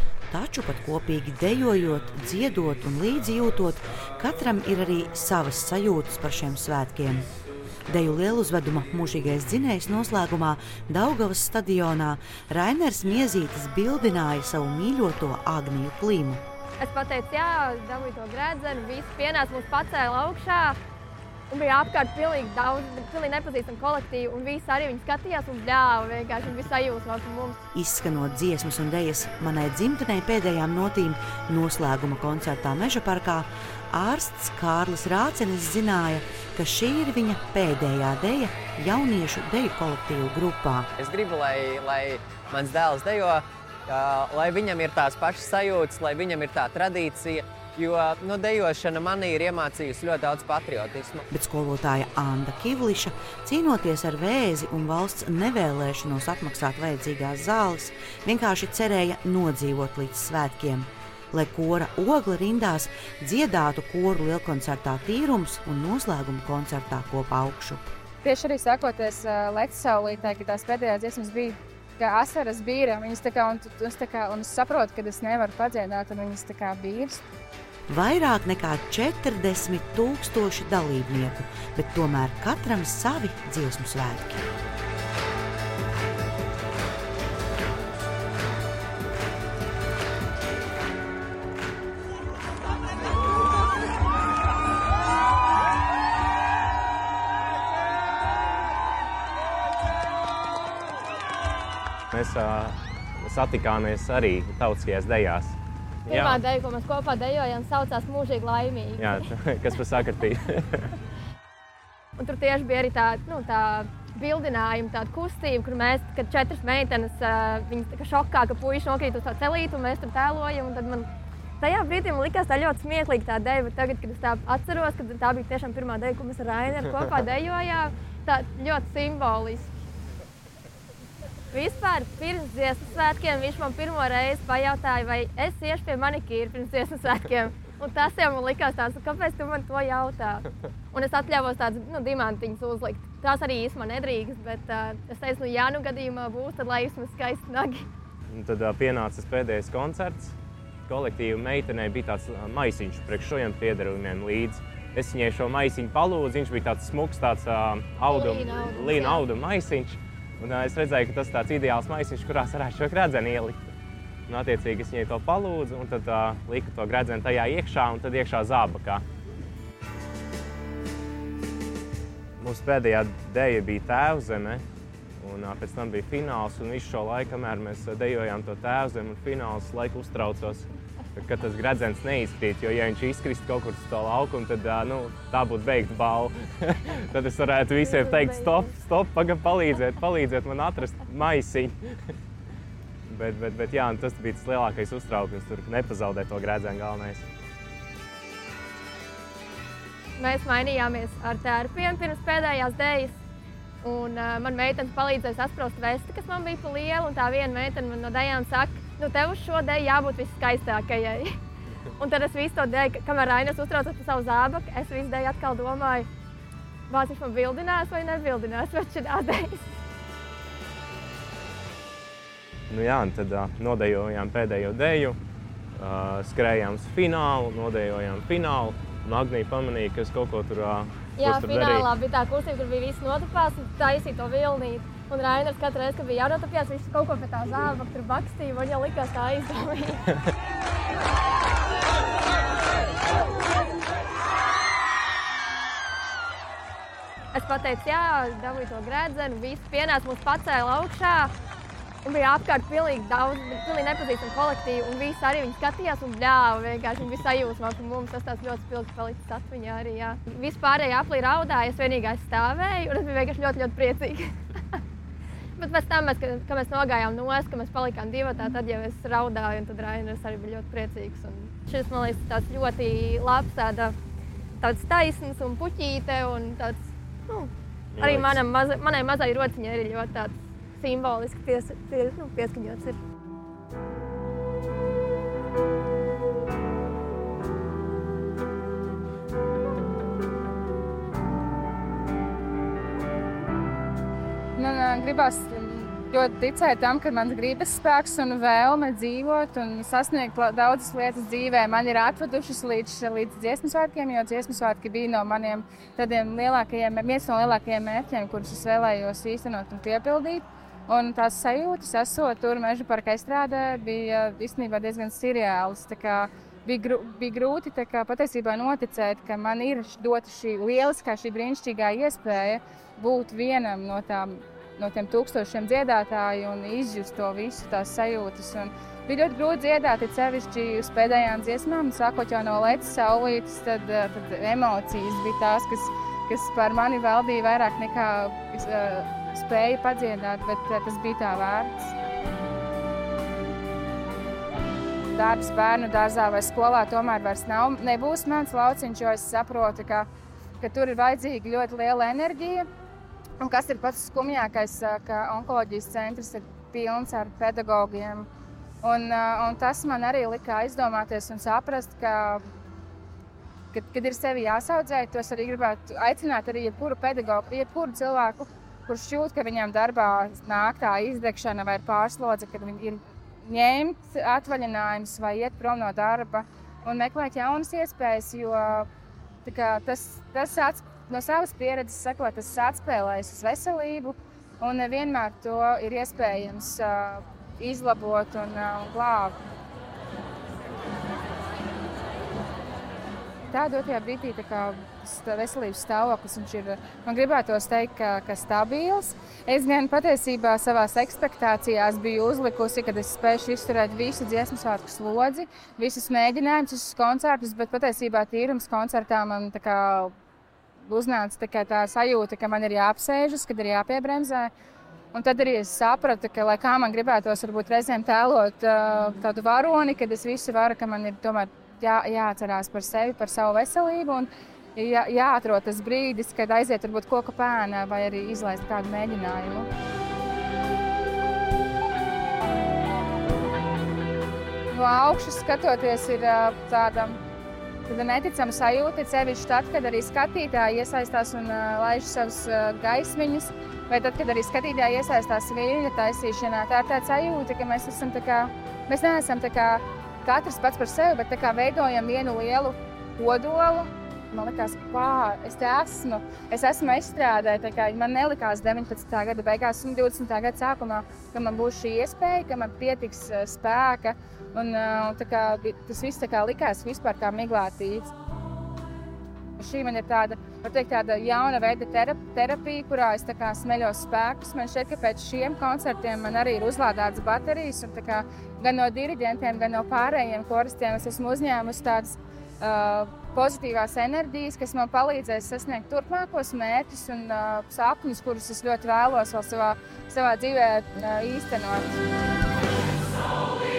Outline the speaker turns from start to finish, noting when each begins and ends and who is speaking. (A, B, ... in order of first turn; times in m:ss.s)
0:00.3-0:07.3 A
0:07.9-0:16.4 A
0:16.8-0:20.8 B
0:21.5-0:27.6 B
0:27.7-0:40.9 A
0:41.0-0:51.2 C
0:51.3-1:07.9 A
1:08.2-1:17.2 D
1:17.9-1:24.4 A
1:42.1-1:46.4 E
1:46.1-1:49.0 B
1:49.0-1:50.8 E
1:52.2-2:01.1 B
2:01.6-2:09.7 B
2:11.5-2:27.8 B
2:28.3-2:30.3 E
2:30.9-2:43.6 E
2:38.1-2:39.2 B
2:44.3-2:49.0 E
2:52.4-2:54.6 E
2:55.2-3:11.8 E
3:07.9-3:08.6 B
3:13.1-3:17.2 E
3:20.2-3:23.1 B
3:23.8-3:31.3 B
3:32.0-3:36.1 B
3:36.9-3:39.6 B
3:42.7-3:45.2 E
3:45.8-3:51.9 E
3:51.2-4:00.0 B
4:07.3-4:11.3 B
4:12.0-4:24.3 B
4:25.6-4:33.9 B
4:34.6-4:43.0 B
4:37.9-4:38.4 E
4:54.6-5:41.9 D
5:45.1-5:50.1 D
5:50.6-5:52.6 D
5:53.4-5:58.3 D
5:58.8-6:02.4 D
6:03.7-6:18.9 D
6:19.4-6:29.4 D
6:33.5-6:50.1 D
6:50.9-6:54.5 D
6:55.1-7:09.7 D
7:14.7-7:17.2 D
7:17.9-7:48.1 D
7:49.6-8:12.0 D